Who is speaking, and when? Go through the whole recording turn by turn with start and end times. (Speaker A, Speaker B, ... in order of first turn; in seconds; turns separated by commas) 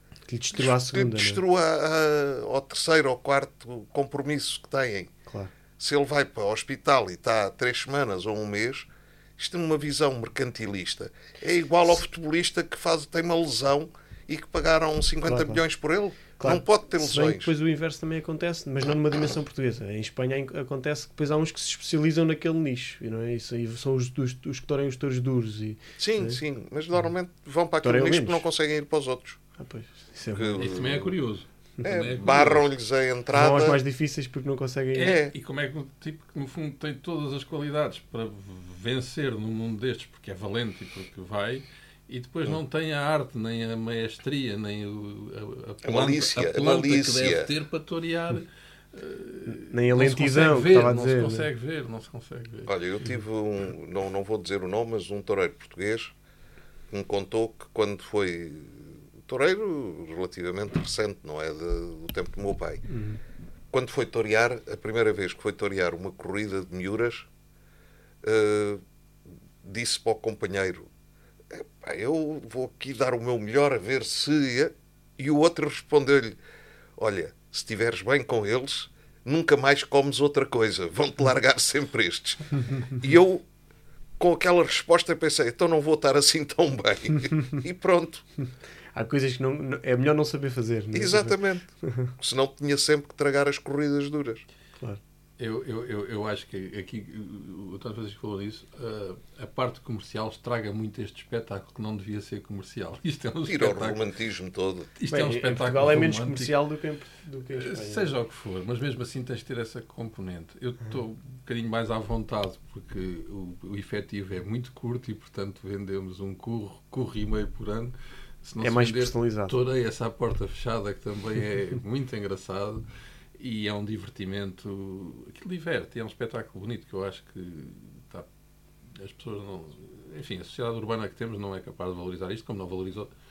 Speaker A: 0.3-1.4, Speaker B: 0.5-5.1, Speaker A: 5.2-5.5, Speaker B: 5.8-17.5, Speaker A: 15.2-15.6, Speaker A: 16.4-26.4, Speaker B: 26.0-29.4, Speaker A: 27.8-28.4, Speaker A: 29.6-30.8, Speaker B: 30.3-31.1, Speaker C: 30.6-32.7, Speaker B: 31.8-33.8, Speaker A: 33.3-35.2, Speaker C: 34.9-52.7, Speaker B: 35.0-35.3, Speaker B: 45.8-47.5, Speaker A: 49.5-51.5, Speaker B: 52.6-56.1, Speaker B: 56.9-62.8, Speaker A: 62.9-63.2, Speaker B: 63.7-67.3, Speaker B: 68.2-68.8, Speaker B: 69.6-70.9, Speaker B: 71.5-76.4, Speaker B: 77.0-83.4, Speaker B: 84.2-88.2, Speaker A: 88.9-92.1, Speaker B: 90.9-94.4, Speaker C: 95.4-104.0, Speaker B: 103.4-104.9, Speaker C: 105.0-106.5, Speaker A: 105.1-108.1, Speaker C: 107.5-122.8, Speaker A: 118.6-119.5, Speaker C: 123.4-128.3, Speaker C: 128.9-133.1